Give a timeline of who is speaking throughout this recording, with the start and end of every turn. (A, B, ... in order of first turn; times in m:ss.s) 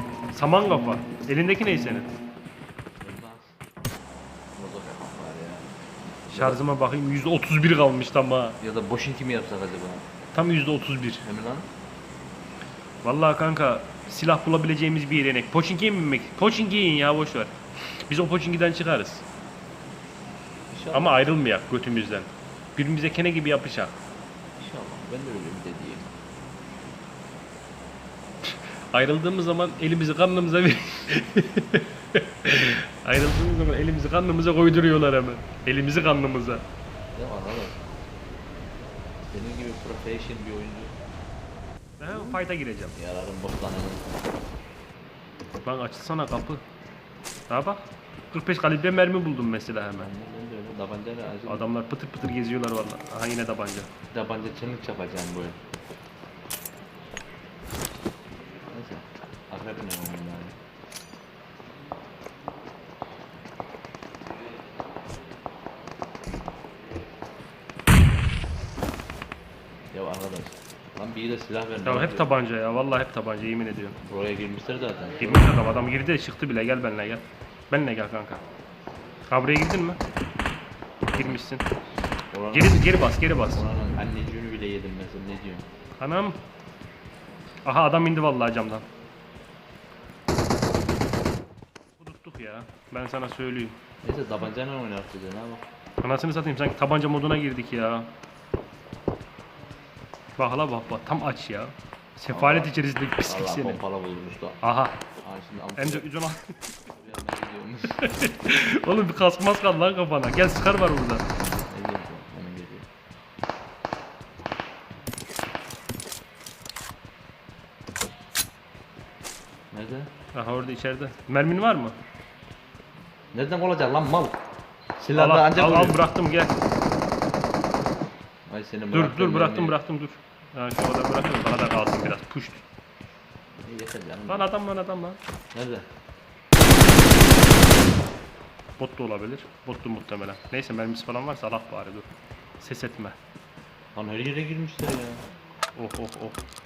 0:00.3-0:02.1 A
0:03.0-0:03.6 B
0:04.5-0:05.7 B
0:06.2-0:06.6 B
0:06.3-0:08.6 A
0:08.6-0:10.0 B
0:10.3-0:11.2 A
0:11.2-0:11.7 B
0:13.0-0:17.5 A
0:18.1-0:19.2 A
0:20.7-0:21.3 B
0:20.9-0:23.9 A
0:24.6-0:26.1 B
0:28.5-0:36.6 A
0:37.1-0:37.8 B
0:39.3-0:40.9 B
0:42.0-0:42.9 A
0:42.1-0:42.4 B
0:42.9-0:44.1 B
0:45.6-0:46.6 A
0:47.5-0:50.1 A
0:50.0-0:51.6 B
0:51.5-0:53.9 A
0:54.1-0:55.6 B
0:58.7-1:00.6 B
1:09.9-1:12.3 B
1:11.8-1:14.0 A
1:14.0-1:15.6 B
1:15.2-1:18.4 A
1:19.3-1:20.0 A
1:21.1-1:21.4 B
1:21.1-1:21.6 A
1:22.3-1:25.6 B
1:22.5-1:23.7 A
1:26.0-1:26.4 A
1:27.6-1:28.8 A
1:32.0-1:33.8 A
1:34.0-1:35.6 B
1:36.0-1:38.1 A
1:40.4-1:43.8 A
1:42.3-1:44.6 B
1:44.6-1:45.0 A
1:45.2-1:46.1 B
1:45.8-1:46.8 A
1:46.9-1:48.0 B
1:48.0-1:51.2 A
1:51.3-1:52.9 B
1:59.7-2:00.1 B
2:00.3-2:02.0 A
2:03.3-2:04.4 B
2:05.0-2:06.0 B
2:05.1-2:06.6 A
2:08.5-2:09.8 B
2:08.9-2:12.6 A
2:13.6-2:14.5 B
2:14.3-2:15.2 A
2:15.5-2:15.8 B
2:18.8-2:22.1 A
2:22.6-2:23.2 A
2:23.9-2:25.2 B
2:25.8-2:26.4 A